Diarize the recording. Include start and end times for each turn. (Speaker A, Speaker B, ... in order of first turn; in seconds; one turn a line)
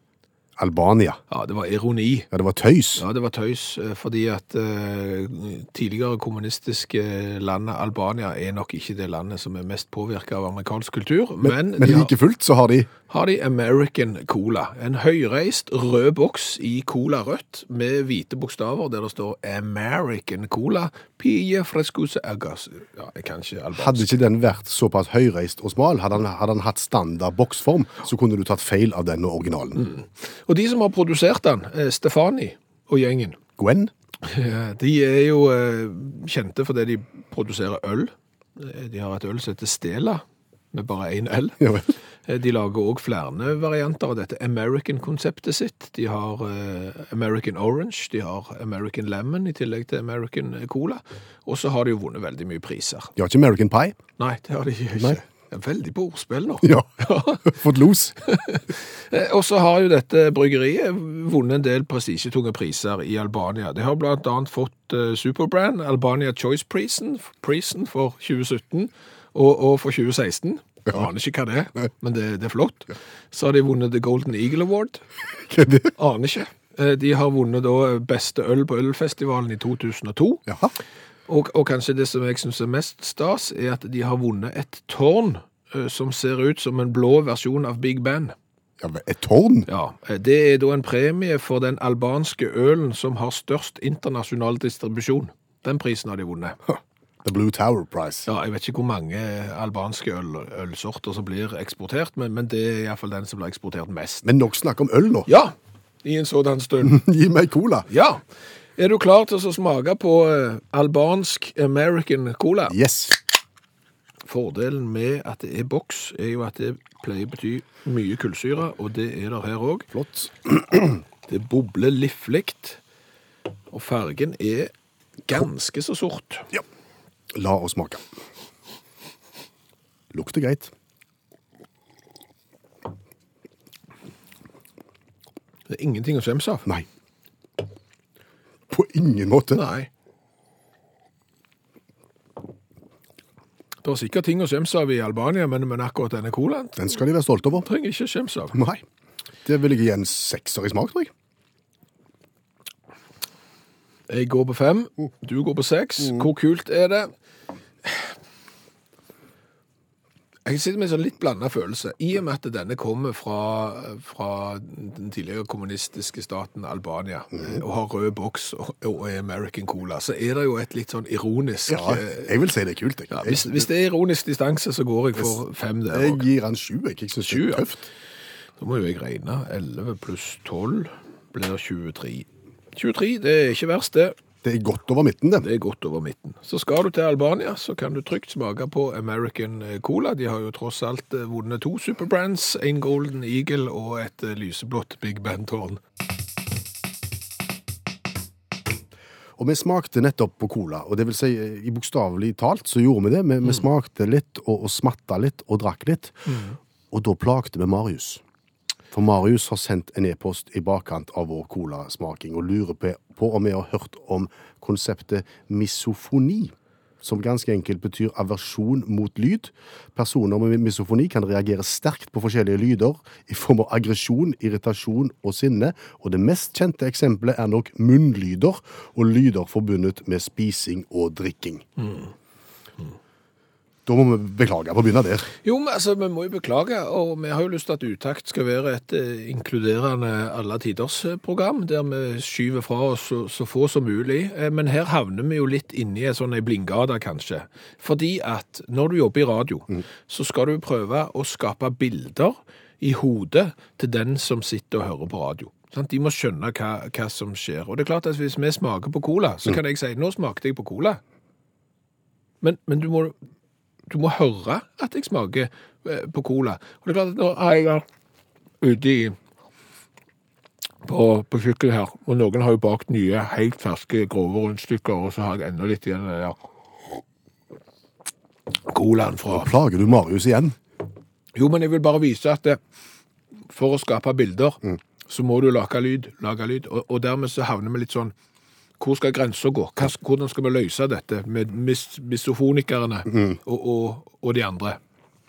Speaker A: 0.6-1.2
Speaker B: 1.3-2.3
Speaker A: 2.3-3.0
Speaker B: 3.0-12.1
Speaker A: 11.4-12.9
Speaker B: 13.1-24.2
Speaker A: 23.7-29.8
Speaker B: 29.8-33.4
Speaker A: 33.6-33.9
Speaker B: 34.2-53.1
Speaker A: 41.6-41.9
Speaker A: 53.2-54.0
Speaker B: 54.2-57.5
Speaker A: 56.6-58.1
Speaker B: 58.2-75.0
Speaker A: 75.4-75.9
Speaker B: 75.9-80.5
Speaker B: 81.3-88.3
Speaker A: 88.8-89.7
Speaker B: 89.7-96.6
Speaker A: 96.7-98.3
Speaker B: 98.2-104.3
Speaker A: 104.2-105.3
Speaker B: 105.3-107.0
Speaker A: 106.8-107.9
Speaker B: 107.9-108.2
Speaker B: 108.8-112.8
Speaker A: 112.7-113.2
Speaker B: 114.2-119.9
Speaker A: 119.9-120.9
Speaker B: 121.3-122.8
Speaker B: 123.7-124.7
Speaker B: 125.3-126.5
Speaker A: 127.3-128.0
Speaker A: 130.1-130.7
Speaker B: 135.7-136.7
Speaker A: 138.7-139.6
Speaker B: 139.5-139.9
Speaker B: 143.8-146.8
Speaker A: 146.8-147.7
Speaker B: 147.6-148.6
Speaker A: 148.5-148.8
Speaker A: 149.4-151.1
Speaker B: 154.1-157.1
Speaker B: 160.4-172.3
Speaker A: 171.7-173.7
Speaker B: 173.1-176.2
Speaker A: 175.9-177.8
Speaker B: 177.2-177.7
Speaker B: 178.6-184.1
Speaker A: 184.4-185.5
Speaker B: 185.4-195.8
Speaker A: 199.4-206.3
Speaker B: 206.3-206.6
Speaker A: 206.9-208.2
Speaker A: 208.9-231.6
Speaker B: 231.8-232.1
Speaker A: 233.8-235.3
Speaker B: 235.4-261.0
Speaker B: 262.4-263.1
Speaker B: 263.9-267.8
Speaker B: 268.6-269.2
Speaker B: 270.8-276.4
Speaker B: 278.6-279.5
Speaker A: 279.3-280.6
Speaker B: 281.3-282.6
Speaker B: 283.5-288.1
Speaker B: 288.8-294.8